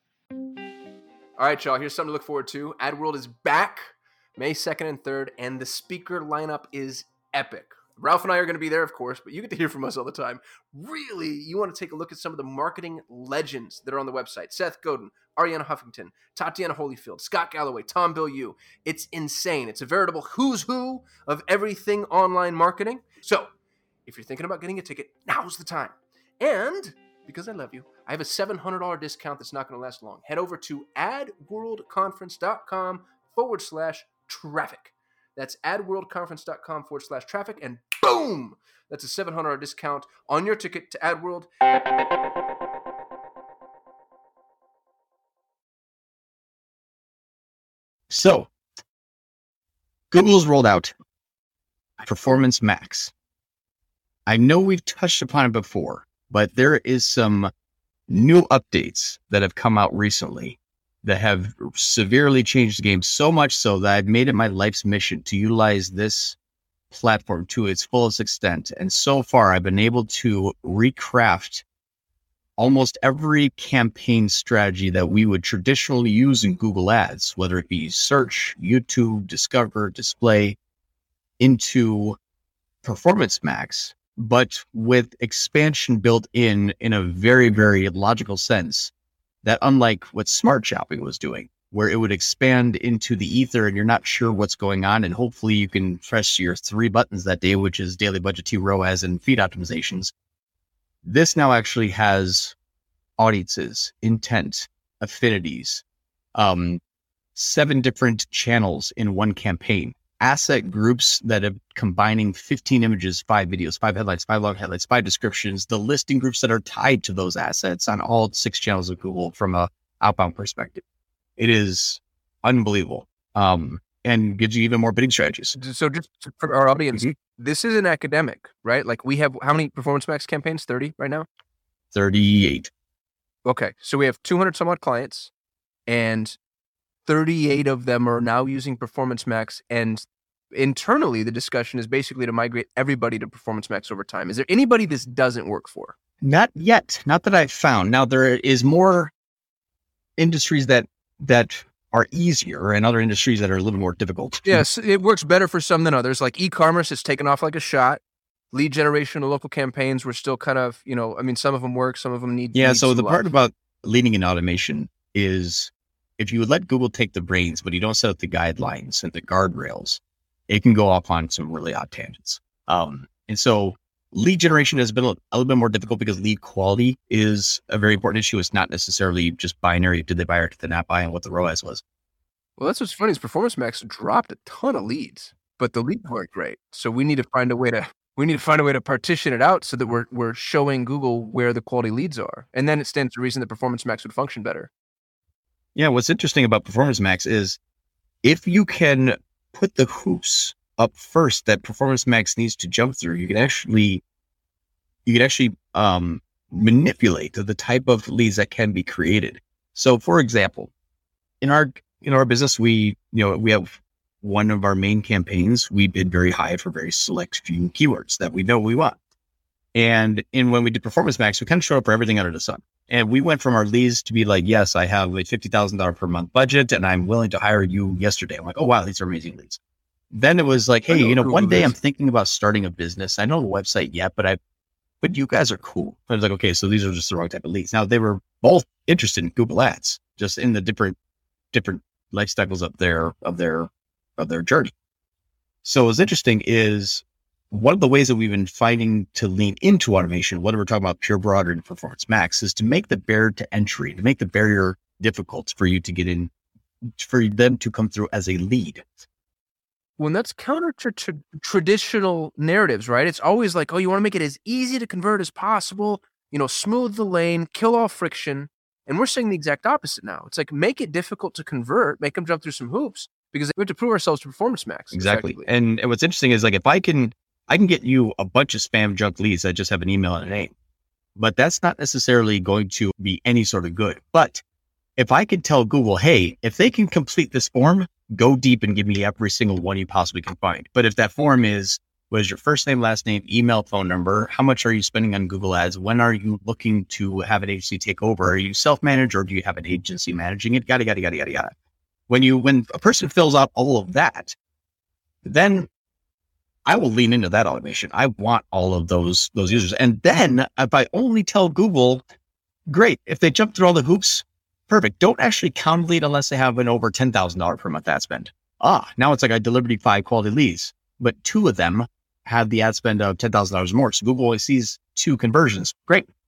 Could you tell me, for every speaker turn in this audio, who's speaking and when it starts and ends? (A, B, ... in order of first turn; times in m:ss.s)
0:01.4-0:23.5 A
0:24.0-0:41.5 A
0:48.1-0:48.5 B
0:50.1-0:50.9 B
0:52.0-0:53.1 B
0:54.3-0:57.5 B
0:58.1-1:06.4 B
1:06.9-1:11.6 B
1:12.6-1:20.6 B
1:21.4-1:22.2 B
1:22.8-1:28.9 B
1:29.4-1:40.1 B
1:41.0-1:42.5 B
1:43.2-1:45.8 B
1:46.3-1:46.8 B
1:47.4-2:00.8 B
2:01.4-2:05.5 B
2:05.5-2:11.2 A
2:11.9-2:12.7 B
2:13.4-2:15.3 A
2:15.9-2:16.4 A
2:17.0-2:25.9 A
2:26.2-2:29.1 B
2:30.2-2:34.6 B
2:34.4-2:43.2 A
2:42.5-3:01.8 B
3:02.6-3:14.7 A
3:15.7-3:17.6 B
3:18.2-3:24.0 B
3:25.0-3:30.7 B
3:31.4-3:39.0 B
3:39.7-3:49.6 B
3:50.1-3:54.4 B
3:50.9-3:51.7 A
3:55.0-4:01.0 B
4:01.5-4:04.7 B
4:05.6-4:16.3 B
4:17.0-4:18.8 B
4:20.0-4:35.4 A
4:34.9-4:40.5 B
4:41.2-4:44.4 B
4:45.0-5:01.5 B
5:02.1-5:04.4 B
5:05.2-5:05.7 B
5:06.6-5:12.0 B
5:12.7-5:26.1 B